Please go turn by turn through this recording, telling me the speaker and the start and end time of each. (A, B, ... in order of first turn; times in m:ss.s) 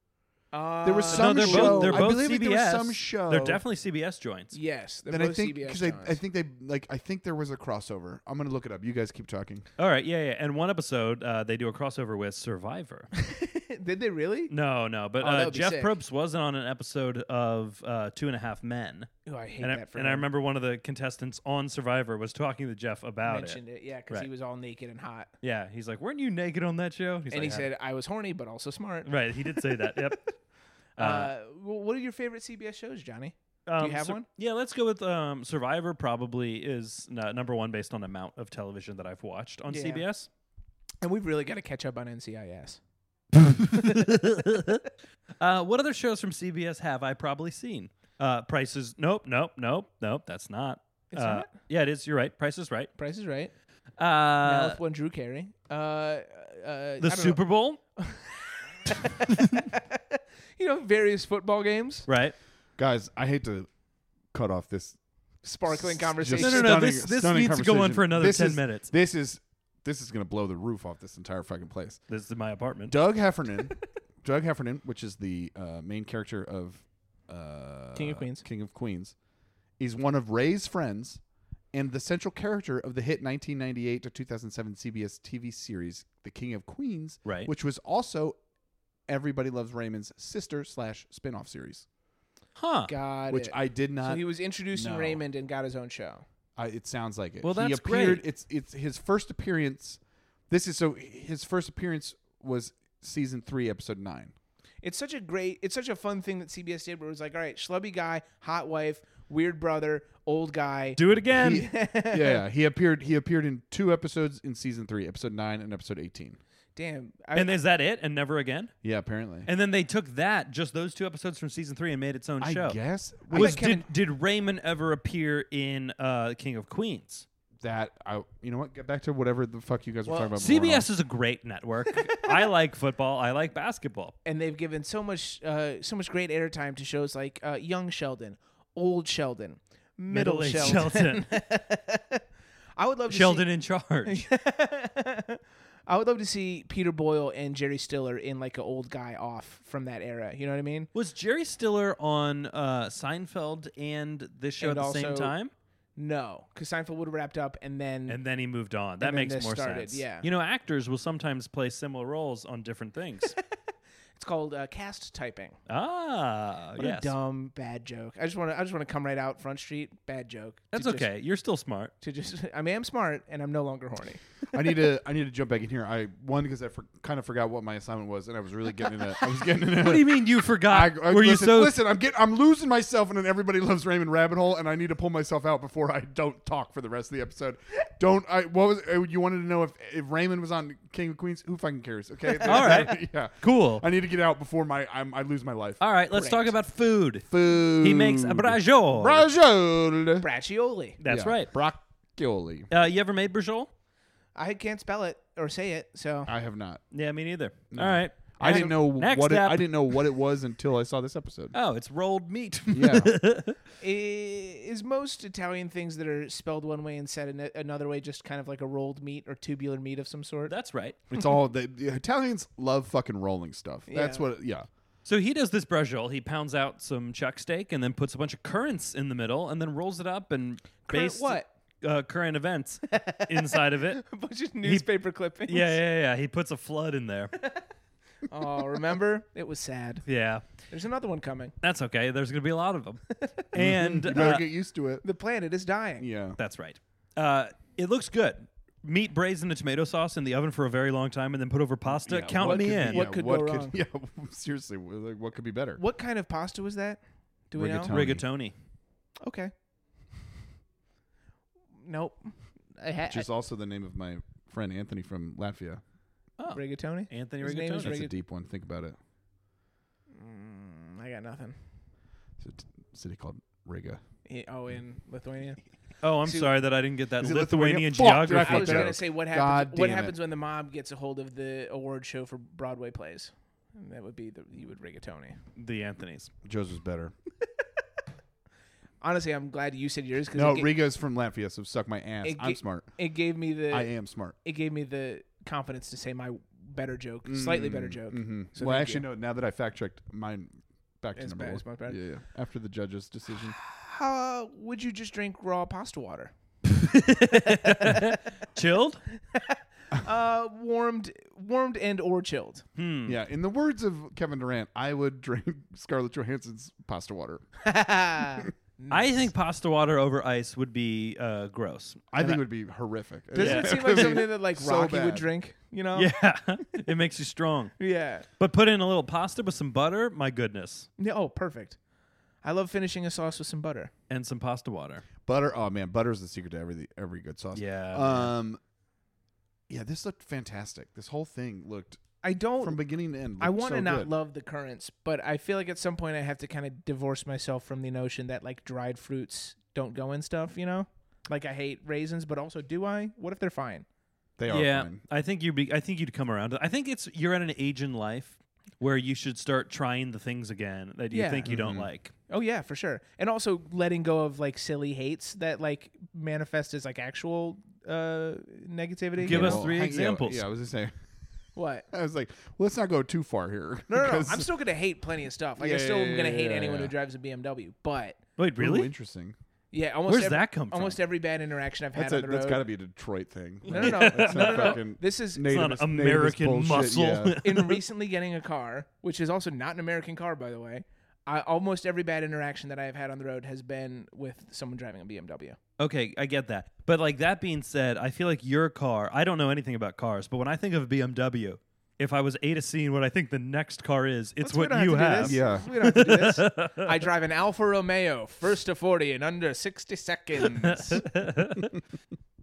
0:00.5-0:02.1 A
0:00.8-0:03.6 B
0:01.1-0:04.6 C
0:04.5-0:06.2 A
0:05.1-0:09.7 B
0:09.8-0:13.1 C
0:13.1-0:14.5 A
0:14.5-0:24.3 C
0:15.2-0:15.9 A
0:19.3-0:20.3 A
0:23.2-0:25.3 A
0:25.4-0:27.7 C
0:27.3-0:30.1 A
0:29.0-0:30.4 C
0:31.0-0:31.3 C
0:31.0-0:34.3 A
0:33.7-0:40.3 C
0:39.7-0:40.0 A
0:41.0-0:42.8 A
0:43.3-0:44.8 C
0:45.4-0:52.9 C
0:51.1-0:51.5 A
0:53.0-0:53.5 A
0:54.0-0:54.8 C
0:54.4-0:57.4 A
0:57.0-0:57.8 C
0:58.0-1:02.1 A
1:02.1-1:02.4 C
1:02.8-1:03.7 B
1:04.3-1:05.0 B
1:05.4-1:06.9 A
1:05.7-1:12.0 B
1:06.4-1:08.9 C
1:12.1-1:13.0 C
1:12.9-1:19.2 B
1:18.0-1:18.4 A
1:19.8-1:21.2 B
1:21.7-1:28.4 B
1:27.2-1:27.5 C
1:29.1-1:31.9 B
1:32.6-1:32.9 C
1:32.9-1:36.2 A
1:33.3-1:35.2 B
1:36.6-1:44.3 B
1:37.4-1:38.2 C
1:44.8-1:52.4 A
1:51.0-1:51.7 C
1:51.4-1:56.4 B
1:56.8-1:57.6 A
1:57.4-1:58.7 C
1:58.8-1:59.5 B
1:59.4-2:07.3 C
2:02.4-2:03.6 B
2:03.3-2:03.9 A
2:07.6-2:10.9 B
2:10.1-2:10.4 A
2:10.4-2:14.2 C
2:14.2-2:22.2 A
2:20.1-2:21.3 C
2:22.8-2:23.5 A
2:23.1-2:24.3 C
2:24.1-2:30.9 A
2:30.9-2:35.5 C
2:34.6-2:35.4 A
2:36.0-2:38.2 A
2:38.1-2:43.4 C
2:39.0-2:40.3 A
2:44.2-2:45.6 A
2:45.7-2:47.1 C
2:46.8-2:51.1 A
2:50.7-2:51.9 C
2:52.0-2:54.2 A
2:54.5-3:15.8 B
2:59.6-3:01.8 C
3:12.4-3:13.8 C
3:12.4-3:12.9 A
3:15.8-3:19.3 C
3:16.1-3:16.5 A
3:17.3-3:20.3 B
3:20.2-3:21.0 A
3:21.0-3:21.5 C
3:21.1-3:22.7 B
3:22.7-3:23.7 C
3:24.4-3:26.3 A
3:26.3-3:26.8 B
3:26.9-3:30.0 C
3:27.7-3:31.6 B
3:28.4-3:28.7 A
3:31.5-3:33.6 C
3:32.7-3:33.1 B
3:33.8-3:40.5 A
3:40.5-3:41.0 C
3:41.1-3:44.7 B
3:43.9-3:44.2 A
3:45.0-3:54.0 C
3:50.9-3:51.5 A
3:52.9-3:55.8 A
3:54.6-3:57.4 C
3:57.4-3:57.6 A
3:58.3-4:00.0 A
4:00.1-4:00.4 C
4:00.7-4:01.5 A
4:01.6-4:04.4 C
4:03.5-4:05.0 B
4:05.0-4:06.1 A
4:06.0-4:06.4 B
4:06.4-4:13.0 C
4:11.9-4:15.8 B
4:12.4-4:13.8 A
4:15.8-4:17.9 A
4:17.6-4:18.2 B
4:17.9-4:18.5 C
4:19.2-4:19.5 A
4:21.8-4:23.3 A
4:23.1-4:25.8 B
4:26.4-4:28.0 C
4:26.5-4:28.2 A
4:27.8-4:29.0 B
4:30.1-4:31.6 A
4:32.4-4:34.0 B
4:34.3-4:35.6 A
4:36.0-4:39.0 C
4:36.2-4:36.5 A
4:37.2-4:40.2 B
4:38.3-4:45.4 A
4:45.6-4:46.3 C
4:46.4-4:47.1 B
4:49.0-4:50.7 A
4:50.4-4:52.9 B
4:52.2-4:59.1 A
4:53.7-4:54.4 B
4:57.3-5:03.6 B
5:01.2-5:02.0 A
5:03.6-5:06.3 A
5:06.7-5:09.0 C
5:07.4-5:08.1 A
5:09.3-5:12.6 A
5:12.8-5:13.2 C
5:13.1-5:17.5 B
5:17.6-5:19.3 A
5:18.9-5:22.0 C
5:22.1-5:25.3 B
5:23.3-5:26.2 A
5:23.4-5:24.2 C
5:26.0-5:27.8 C
5:27.8-5:28.3 A
5:28.4-5:30.9 C
5:31.0-5:31.8 A
5:32.4-5:33.9 A
5:34.1-5:35.0 C
5:35.3-5:38.6 B
5:37.5-5:38.3 C
5:39.7-5:42.0 B
5:42.2-5:42.8 A
5:42.6-5:44.1 B
5:43.4-5:53.9 A
5:54.4-5:55.0 B
5:54.5-6:02.1 C
6:01.1-6:01.5 A
6:01.5-6:01.9 B
6:02.3-6:09.7 A
6:09.2-6:10.4 C
6:09.3-6:11.0 B
6:11.6-6:11.9 A
6:11.9-6:14.5 B
6:13.9-6:18.2 A
6:15.6-6:16.9 B
6:18.4-6:18.9 C
6:18.6-6:19.4 B
6:19.7-6:22.6 A
6:20.1-6:21.0 C
6:22.0-6:27.4 B
6:23.7-6:25.5 A
6:23.7-6:24.8 C
6:25.4-6:27.8 C
6:27.4-6:35.6 A
6:35.8-6:46.9 C
6:44.4-6:51.1 A
6:45.2-6:45.7 B
6:50.6-6:51.7 C